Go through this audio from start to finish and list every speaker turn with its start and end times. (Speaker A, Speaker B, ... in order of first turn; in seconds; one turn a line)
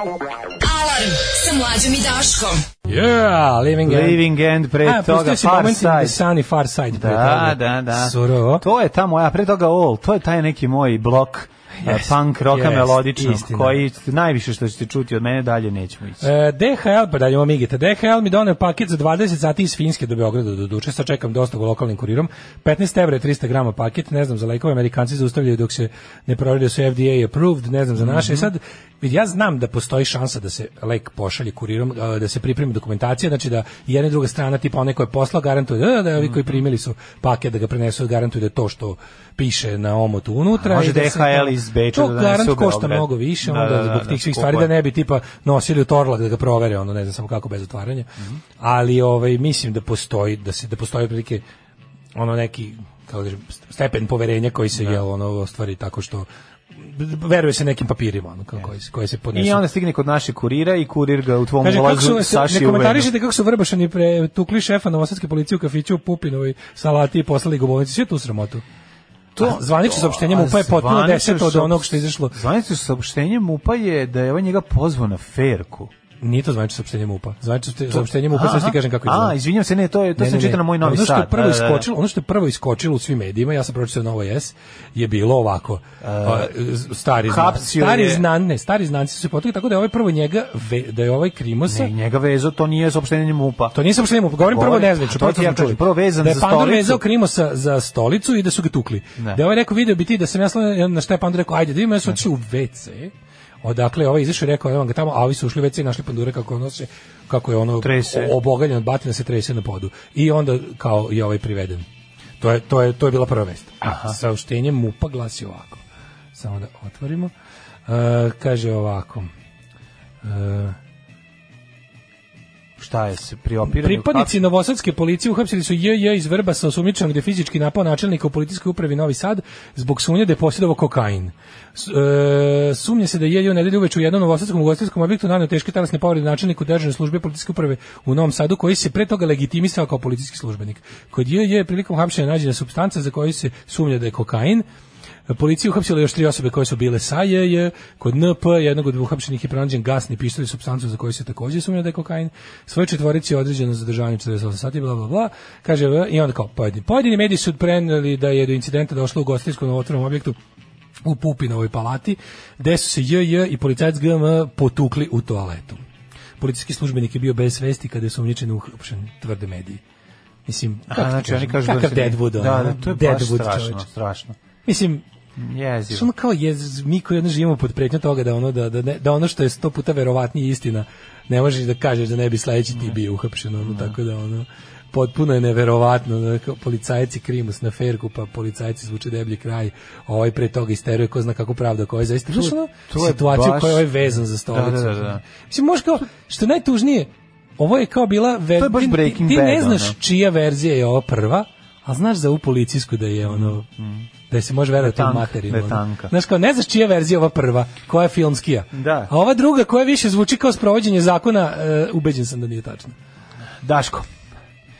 Speaker A: 0.6-2.6
Speaker B: 2.9-4.2
Speaker C: 3.8-6.2
Speaker B: 4.8-8.7
Speaker C: 6.9-16.3
Speaker B: 11.8-13.8
Speaker B: 16.2-51.4
Speaker C: 28.0-28.5
Speaker C: 36.2-36.6
Speaker C: 40.6-44.7
Speaker B: 52.2-56.3
Speaker C: 54.7-55.0
Speaker B: 56.8-59.6
Speaker C: 59.3-63.1
Speaker B: 61.6-68.6
Speaker C: 69.4-75.9
Speaker B: 69.4-72.4
Speaker B: 76.2-79.4
Speaker C: 77.9-81.9
Speaker B: 80.2-91.9
Speaker C: 86.0-86.5
Speaker C: 87.3-88.2
Speaker C: 91.7-93.7
Speaker B: 93.7-103.1
Speaker C: 94.4-97.0
Speaker B: 103.6-111.8
Speaker C: 107.8-108.3
Speaker B: 112.4-115.8
Speaker C: 113.8-114.2
Speaker B: 116.3-117.3
Speaker B: 117.9-119.3
Speaker B: 120.2-120.8
Speaker C: 122.8-124.3
Speaker B: 123.7-144.7
Speaker B: 145.3-160.4
Speaker B: 161.1-165.8
Speaker B: 166.4-169.8
Speaker B: 170.4-173.9
Speaker C: 170.9-174.4
Speaker B: 174.7-175.0
Speaker C: 175.4-176.1
Speaker B: 175.9-203.7
Speaker C: 183.6-183.9
Speaker C: 192.3-194.0
Speaker C: 194.5-195.2
Speaker C: 198.6-199.9
Speaker C: 203.3-204.1
Speaker B: 204.3-212.9
Speaker C: 204.8-206.1
Speaker C: 208.7-209.1
Speaker C: 213.6-214.1